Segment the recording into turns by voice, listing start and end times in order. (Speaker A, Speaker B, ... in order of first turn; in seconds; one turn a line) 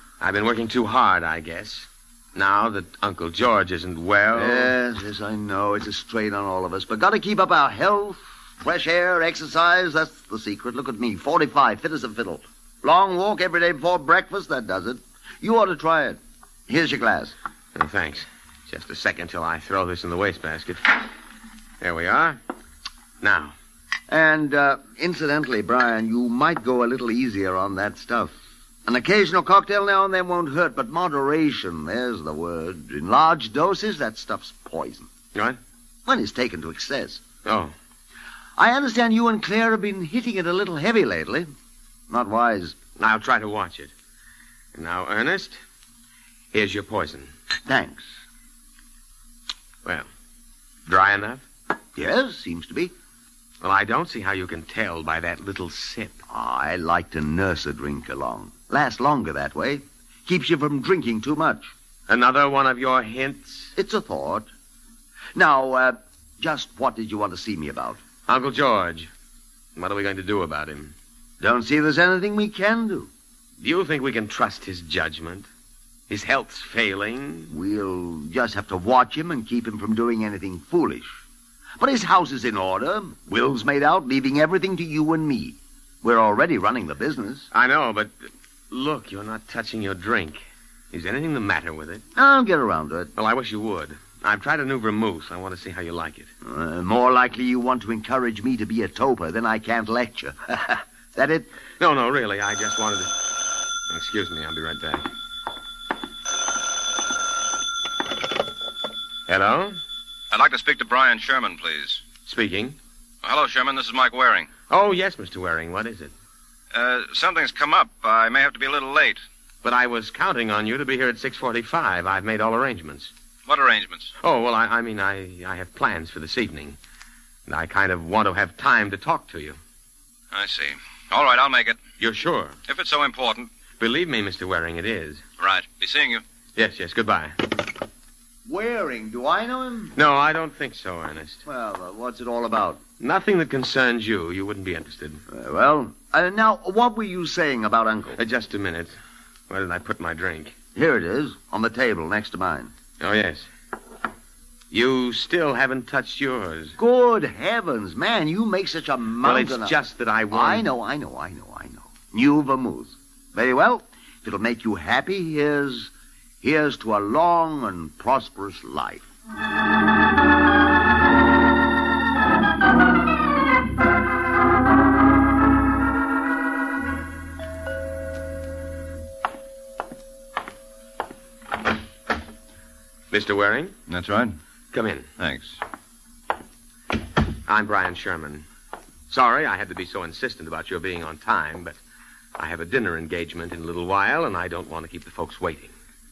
Speaker A: 0.2-4.7
Speaker B: 4.3-17.3
Speaker A: 17.7-21.0
Speaker A: 21.8-22.4
Speaker A: 23.2-23.5
Speaker B: 24.1-28.3
Speaker B: 28.9-35.1
Speaker B: 36.0-37.2
Speaker A: 37.4-37.7
Speaker B: 38.6-41.5
Speaker B: 42.1-42.8
Speaker A: 43.0-43.9
Speaker A: 44.7-45.6
Speaker A: 46.5-47.3
Speaker B: 47.6-48.1
Speaker A: 50.9-51.4
Speaker B: 52.0-52.9
Speaker A: 53.6-56.2
Speaker B: 56.3-61.7
Speaker A: 62.1-63.7
Speaker B: 63.8-64.5
Speaker B: 65.3-68.0
Speaker A: 68.3-69.1
Speaker A: 69.8-70.9
Speaker B: 71.4-73.1
Speaker A: 73.6-75.5
Speaker A: 76.1-77.5
Speaker B: 77.5-81.2
Speaker B: 81.8-87.5
Speaker A: 87.5-92.0
Speaker B: 92.2-93.1
Speaker A: 93.1-96.3
Speaker B: 96.4-101.5
Speaker A: 101.8-103.2
Speaker A: 103.9-105.0
Speaker A: 109.3-109.8
Speaker C: 110.3-112.0
Speaker A: 112.2-112.8
Speaker C: 113.2-114.5
Speaker A: 114.7-116.1
Speaker C: 116.7-119.2
Speaker A: 119.6-123.1
Speaker C: 123.5-124.1
Speaker A: 124.2-126.8
Speaker A: 127.5-129.6
Speaker C: 130.3-131.8
Speaker A: 132.0-132.6
Speaker C: 132.7-133.5
Speaker A: 133.8-135.2
Speaker C: 135.4-136.2
Speaker A: 136.6-137.4
Speaker B: 138.4-139.9
Speaker A: 139.9-141.4
Speaker B: 141.4-142.8
Speaker A: 143.0-145.2
Speaker B: 145.3-148.2
Speaker A: 148.2-148.9
Speaker A: 149.5-150.5
Speaker B: 150.7-152.7
Speaker A: 153.0-153.5
Speaker A: 154.7-156.8
Speaker B: 156.8-159.7
Speaker A: 159.2-160.7
Speaker B: 160.3-165.9
Speaker B: 166.4-169.1
Speaker A: 183.1-183.7
Speaker C: 183.9-184.4
Speaker A: 184.7-185.1
Speaker C: 185.2-185.6
Speaker A: 187.5-188.4
Speaker A: 189.1-191.8
Speaker A: 192.4-195.7